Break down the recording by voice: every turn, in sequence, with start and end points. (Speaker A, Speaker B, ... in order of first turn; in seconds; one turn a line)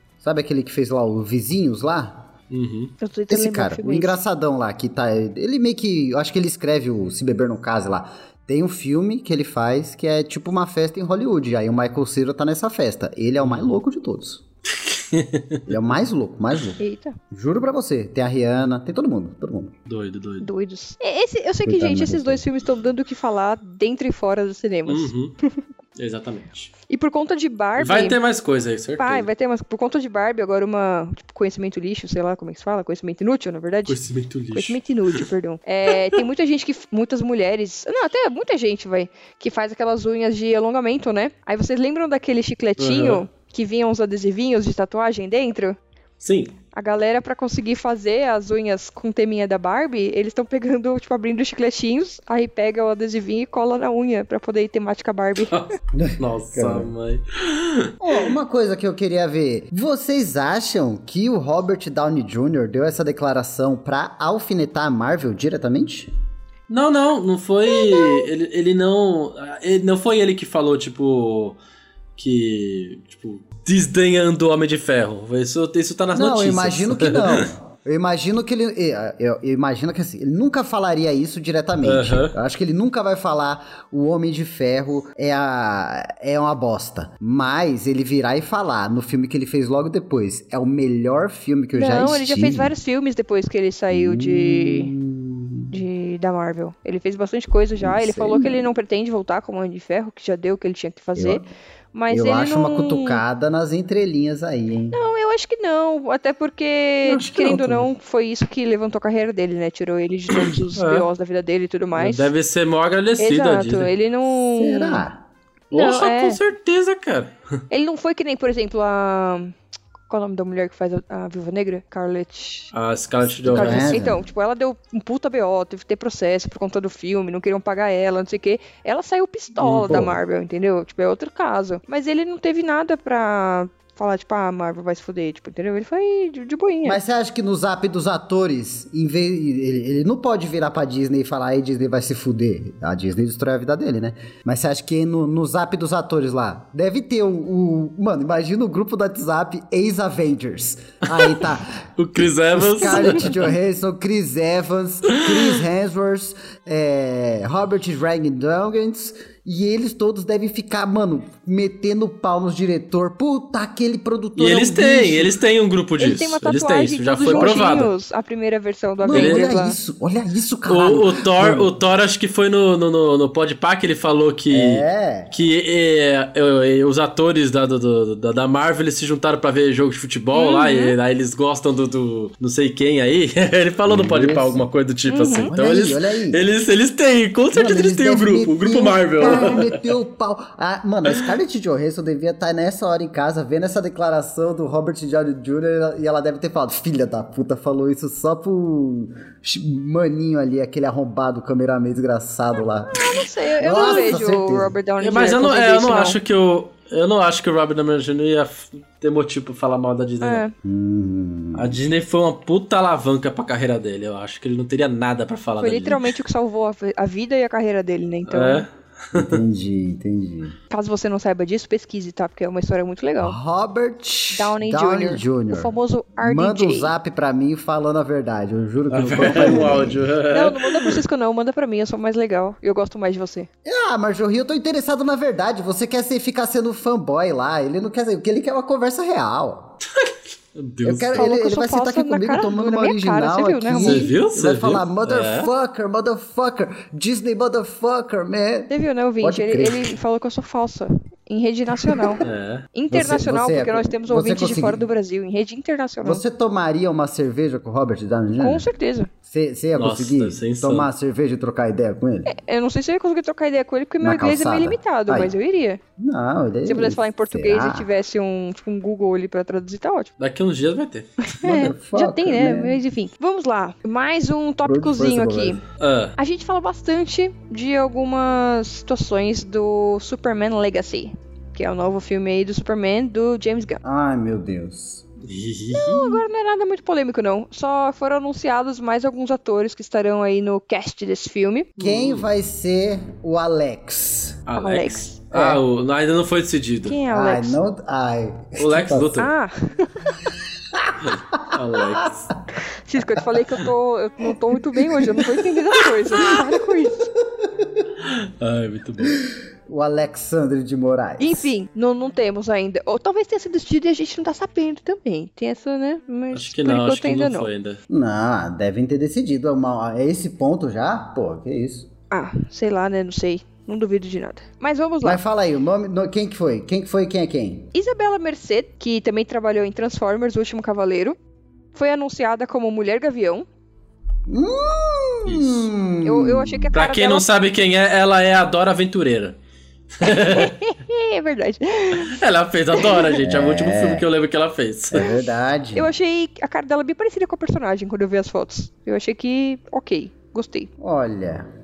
Speaker A: 0.2-2.3
Speaker B: 2.5-2.9
Speaker C: 3.0-4.2
Speaker A: 3.3-14.4
Speaker B: 13.4-13.7
Speaker B: 14.7-15.7
Speaker A: 15.7-19.7
Speaker C: 16.8-17.2
Speaker B: 19.9-20.5
Speaker C: 20.4-25.6
Speaker A: 21.6-22.4
Speaker B: 24.9-25.3
Speaker B: 25.9-26.7
Speaker C: 26.9-28.2
Speaker B: 27.8-29.3
Speaker C: 29.0-34.0
Speaker B: 33.9-35.2
Speaker C: 34.5-45.8
Speaker B: 42.8-43.2
Speaker B: 46.2-46.5
Speaker C: 46.7-55.6
Speaker B: 55.5-57.9
Speaker A: 55.9-56.9
Speaker A: 58.0-66.1
Speaker B: 66.7-71.6
Speaker C: 67.7-68.2
Speaker B: 72.2-77.5
Speaker A: 76.1-92.7
Speaker B: 81.8-82.3
Speaker C: 91.7-94.9
Speaker A: 93.9-95.7
Speaker C: 95.7-103.2
Speaker A: 97.8-98.7
Speaker A: 101.2-101.5
Speaker A: 102.1-105.0
Speaker C: 104.9-112.3
Speaker B: 107.0-107.9
Speaker B: 110.3-111.0
Speaker B: 111.9-113.9
Speaker C: 113.2-115.0
Speaker A: 114.5-115.2
Speaker B: 115.7-117.3
Speaker C: 115.7-116.4
Speaker C: 117.7-119.5
Speaker C: 120.1-122.7
Speaker B: 122.7-124.0
Speaker A: 123.4-124.2
Speaker C: 123.5-137.0
Speaker B: 129.6-130.1
Speaker A: 136.8-165.3
Speaker B: 151.1-151.4
Speaker B: 152.0-153.5
Speaker B: 164.3-167.9
Speaker C: 166.0-169.8
Speaker A: 167.2-167.9
Speaker A: 169.0-171.7
Speaker B: 169.1-169.4
Speaker B: 170.7-189.8
Speaker A: 174.5-175.3
Speaker C: 180.3-180.9
Speaker A: 183.8-184.7
Speaker C: 185.1-185.5
Speaker A: 185.5-186.4
Speaker A: 187.5-203.1
Speaker C: 202.9-206.2
Speaker A: 203.6-204.7
Speaker B: 205.0-210.4
Speaker C: 210.2-210.5
Speaker A: 210.6-211.8
Speaker B: 211.5-216.1
Speaker C: 215.6-218.6
Speaker B: 218.3-219.4
Speaker A: 219.1-220.6
Speaker C: 220.7-223.4
Speaker A: 223.2-230.0
Speaker C: 224.3-226.9
Speaker B: 228.9-231.0
Speaker C: 229.3-233.5
Speaker A: 233.6-239.8
Speaker B: 240.0-241.3
Speaker A: 240.8-249.9
Speaker C: 241.1-244.1
Speaker B: 243.8-245.5
Speaker C: 248.7-252.2
Speaker A: 251.9-252.2
Speaker B: 252.2-252.7
Speaker C: 252.7-256.2
Speaker A: 252.9-254.8
Speaker A: 256.0-258.7
Speaker C: 258.4-259.1
Speaker A: 259.3-262.3
Speaker B: 259.8-260.9
Speaker C: 262.3-265.8
Speaker A: 264.0-265.3
Speaker A: 266.0-267.9
Speaker C: 266.6-270.1
Speaker B: 270.2-271.1
Speaker C: 271.3-275.6
Speaker A: 271.4-272.8
Speaker A: 274.6-275.6
Speaker B: 275.8-276.1
Speaker C: 276.2-283.8
Speaker A: 283.8-285.0
Speaker B: 285.2-286.2
Speaker C: 285.7-291.7
Speaker B: 291.8-292.2
Speaker A: 291.8-294.4
Speaker B: 294.5-296.9
Speaker C: 294.6-295.2
Speaker A: 295.3-295.6
Speaker C: 296.8-297.6
Speaker A: 297.1-299.2
Speaker B: 298.6-299.3
Speaker C: 299.2-300.1
Speaker A: 300.7-302.3
Speaker B: 301.0-302.3
Speaker C: 302.6-307.1
Speaker A: 305.0-305.2
Speaker A: 307.4-307.8
Speaker B: 308.0-309.2
Speaker A: 309.1-311.5
Speaker C: 311.2-317.5
Speaker B: 316.3-317.8
Speaker A: 317.9-321.9
Speaker C: 322.1-325.2
Speaker A: 325.0-327.7
Speaker C: 327.7-331.2
Speaker C: 331.7-333.4
Speaker A: 334.3-336.7
Speaker B: 335.2-335.7
Speaker C: 336.0-337.2
Speaker B: 336.7-339.4
Speaker B: 340.0-340.5
Speaker C: 340.1-342.2
Speaker B: 341.9-345.1
Speaker C: 342.8-343.1
Speaker A: 343.2-344.1
Speaker A: 344.9-345.9
Speaker C: 345.7-350.7
Speaker A: 350.8-351.5